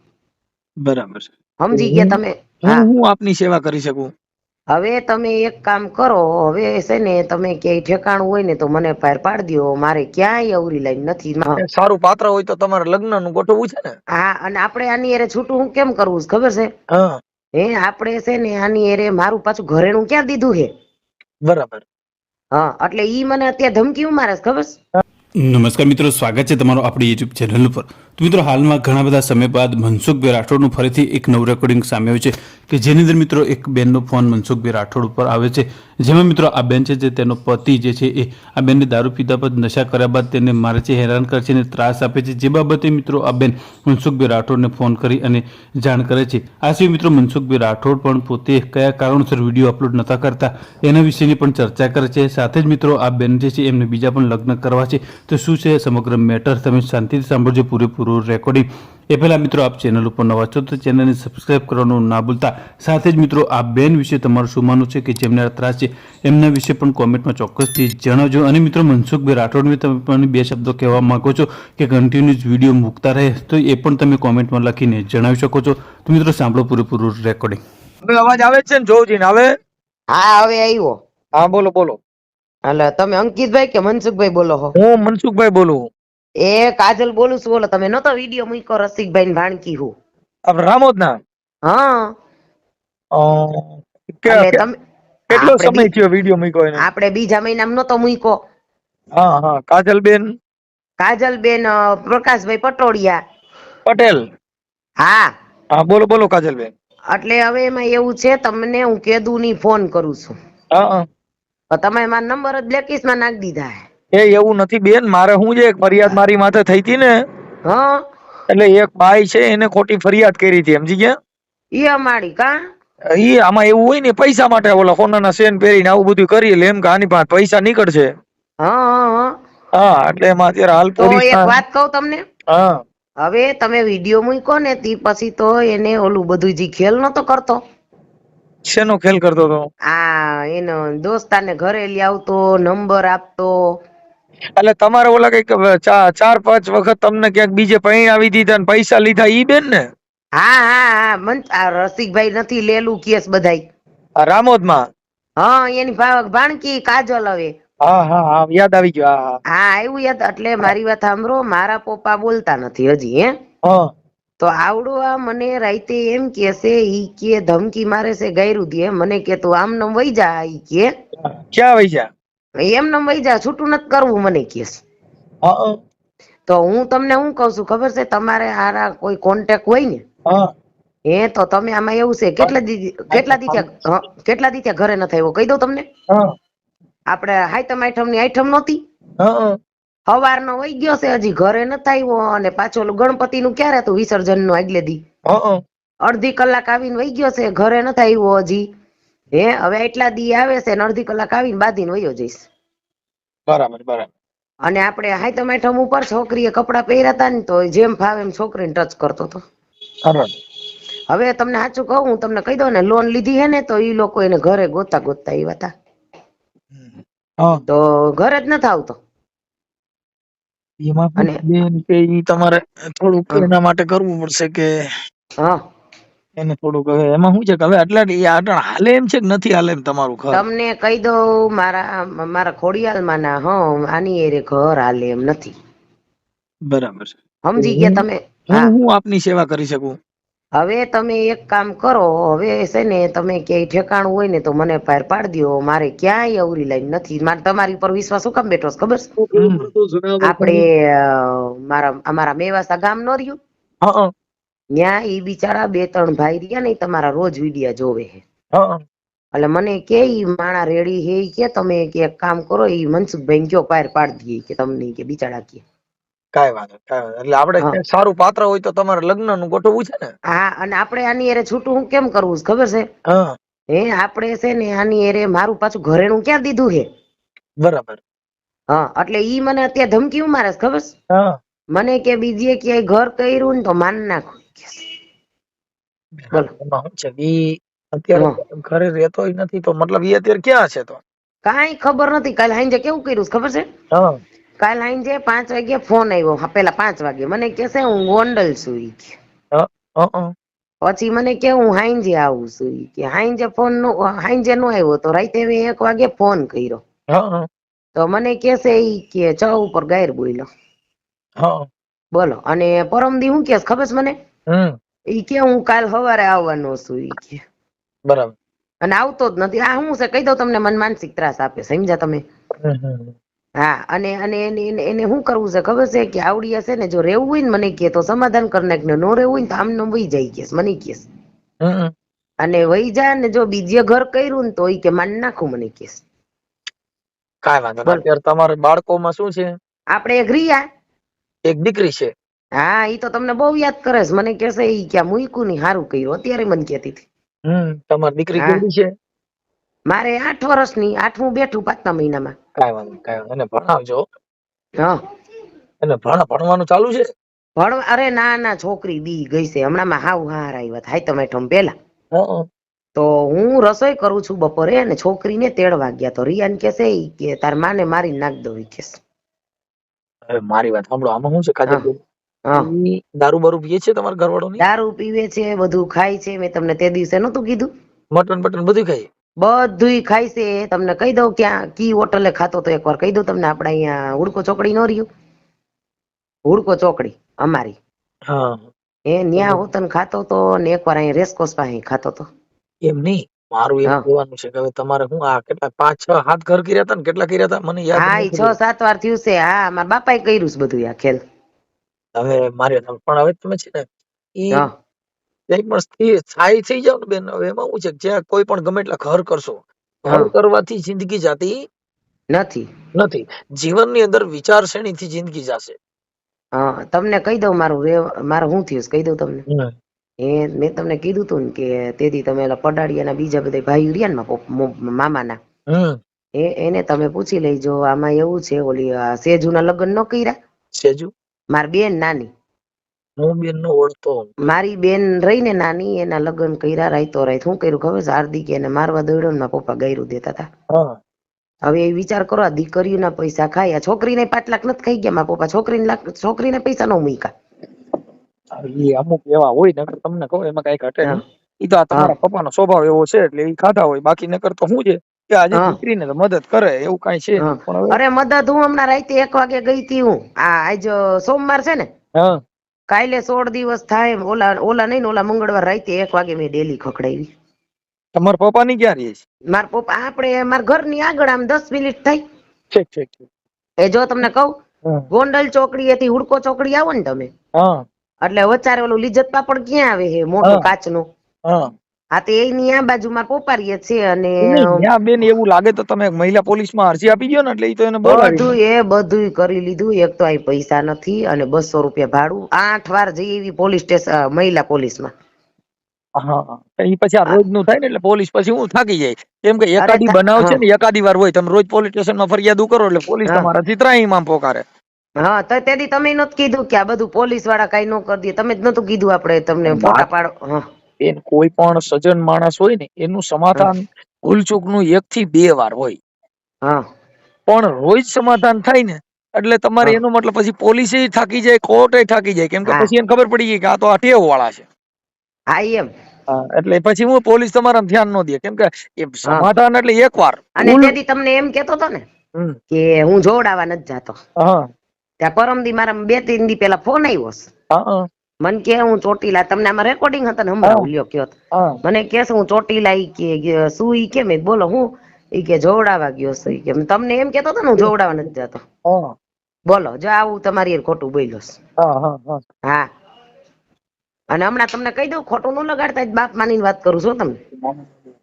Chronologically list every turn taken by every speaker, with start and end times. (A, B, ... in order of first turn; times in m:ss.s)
0:00.8-0:04.1 A
0:01.6-0:02.8 B
0:04.7-0:11.6 B
0:11.5-0:14.0 A
0:14.1-0:16.7 B
0:16.9-0:17.2 A
0:17.6-0:20.7 B
0:21.4-0:21.8 A
0:22.5-0:24.7 B
0:25.4-1:17.6 C
1:18.0-1:19.5 A
1:20.1-1:21.0 B
1:21.4-1:22.0 A
1:22.6-1:24.7 B
1:24.7-1:25.9 A
1:26.4-1:29.9 B
1:30.5-1:31.2 A
1:31.6-1:32.1 B
1:33.1-1:34.6 A
1:34.3-1:34.7 B
1:35.3-1:36.8 A
1:35.3-1:35.9 B
1:36.8-1:38.4 B
1:39.1-1:40.3 A
1:41.0-1:43.2 B
1:43.8-1:44.3 A
1:45.0-1:45.3 B
1:45.7-1:46.7 A
1:47.1-1:50.4 B
1:50.7-1:51.0 A
1:51.7-1:53.8 B
1:54.1-1:57.1 A
1:57.6-1:58.0 B
1:58.5-2:01.1 A
2:01.7-2:02.5 B
2:03.1-2:08.1 A
2:08.6-2:09.4 B
2:09.7-2:11.6 A
2:11.0-2:12.2 B
2:12.5-2:12.8 A
2:13.2-2:17.6 B
2:18.6-2:19.7 A
2:19.9-2:23.8 B
2:24.6-2:29.8 A
2:30.4-2:33.6 B
2:34.2-2:34.8 A
2:35.4-2:37.5 B
2:37.8-2:39.4 A
2:39.5-2:43.3 B
2:43.6-2:43.9 A
2:44.4-2:50.9 B
2:51.2-2:52.1 A
2:52.6-2:54.8 B
2:55.4-2:55.8 A
2:56.5-3:00.0 B
3:00.2-3:00.5 A
3:01.1-3:05.8 B
3:03.1-3:03.6 A
3:06.1-3:06.3 A
3:07.1-3:08.8 B
3:09.2-3:09.6 A
3:10.1-3:15.0 B
3:15.2-3:15.6 A
3:16.0-3:18.6 B
3:19.3-3:22.4 B
3:23.5-3:24.1 A
3:24.6-3:29.4 B
3:30.0-3:30.3 A
3:31.1-3:35.7 B
3:36.7-3:37.6 A
3:37.7-3:39.0 B
3:40.8-3:44.8 A
3:46.4-3:50.4 A
3:50.3-3:55.5 B
3:56.7-4:00.0 A
3:57.4-3:58.7 B
4:00.6-4:09.1 B
4:09.3-4:10.6 A
4:10.2-4:13.4 B
4:13.8-4:14.1 A
4:14.7-4:18.2 B
4:18.5-4:18.8 A
4:19.3-4:25.6 B
4:26.3-4:30.1 A
4:30.3-4:32.9 B
4:33.0-4:33.4 A
4:33.7-4:36.9 B
4:37.6-4:38.0 A
4:38.7-4:40.9 B
4:41.1-4:41.4 A
4:41.7-4:44.9 B
4:46.2-4:51.0 A
4:51.4-4:53.7 B
4:53.9-4:54.2 A
4:54.6-4:59.2 B
4:59.5-5:00.3 A
5:00.8-5:06.8 B
5:07.1-5:07.5 A
5:08.0-5:10.5 B
5:11.4-5:11.7 A
5:12.1-5:14.1 B
5:14.5-5:14.8 A
5:15.1-5:17.4 B
5:18.1-5:18.3 A
5:18.8-5:22.2 B
5:22.6-5:23.1 A
5:23.6-5:31.0 B
5:31.6-5:31.9 A
5:32.4-5:36.0 B
5:37.4-5:39.6 A
5:39.9-5:40.6 B
5:41.4-5:42.1 A
5:42.6-5:47.0 B
5:47.4-5:48.9 A
5:49.9-5:52.3 B
5:52.6-5:54.1 A
5:55.8-5:57.1 A
5:57.6-6:01.7 B
6:02.1-6:02.5 A
6:03.0-6:09.0 B
6:10.3-6:12.0 A
6:12.5-6:14.6 A
6:14.6-6:17.7 B
6:18.1-6:19.1 A
6:19.4-6:25.1 B
6:26.5-6:27.8 B
6:28.3-6:28.7 A
6:29.1-6:32.2 B
6:29.4-6:29.6 A
6:32.8-6:38.5 A
6:38.0-6:41.2 B
6:42.2-6:44.6 A
6:45.5-6:51.6 A
6:52.3-6:52.7 B
6:52.9-6:55.8 A
6:56.5-6:59.4 B
6:59.5-6:59.7 A
7:00.2-7:05.4 B
7:05.7-7:06.0 A
7:06.4-7:10.3 B
7:10.7-7:11.1 A
7:11.5-7:12.3 B
7:13.2-7:14.4 A
7:14.4-7:20.5 B
7:20.7-7:21.0 A
7:21.6-7:27.3 B
7:28.5-7:38.0 A
7:37.4-7:41.9 B
7:42.1-7:42.4 A
7:42.9-7:47.3 B
7:48.1-7:49.2 A
7:49.5-7:52.2 B
7:52.7-7:53.3 A
7:53.8-7:54.5 B
7:55.1-7:57.3 B
7:57.5-7:57.8 A
7:58.2-8:01.0 B
8:00.4-8:00.7 A
8:02.1-8:04.8 B
8:04.4-8:08.5 A
8:08.0-8:15.1 B
8:16.2-8:24.6 A
8:19.8-8:20.6 B
8:25.2-8:30.6 B
8:29.7-8:30.1 A
8:31.0-8:36.0 A
8:37.5-8:44.6 A
8:45.5-8:45.9 B
8:46.3-8:50.9 A
8:50.6-8:52.0 B
8:52.7-8:54.2 B
8:54.4-8:54.7 A
8:55.2-8:57.5 B
8:57.7-8:58.1 A
8:58.4-9:08.6 B
9:00.6-9:00.9 A
9:01.5-9:01.8 A
9:08.8-9:09.1 A
9:09.7-9:11.6 B
9:11.8-9:12.4 A
9:14.3-9:17.4 B
9:17.6-9:18.0 A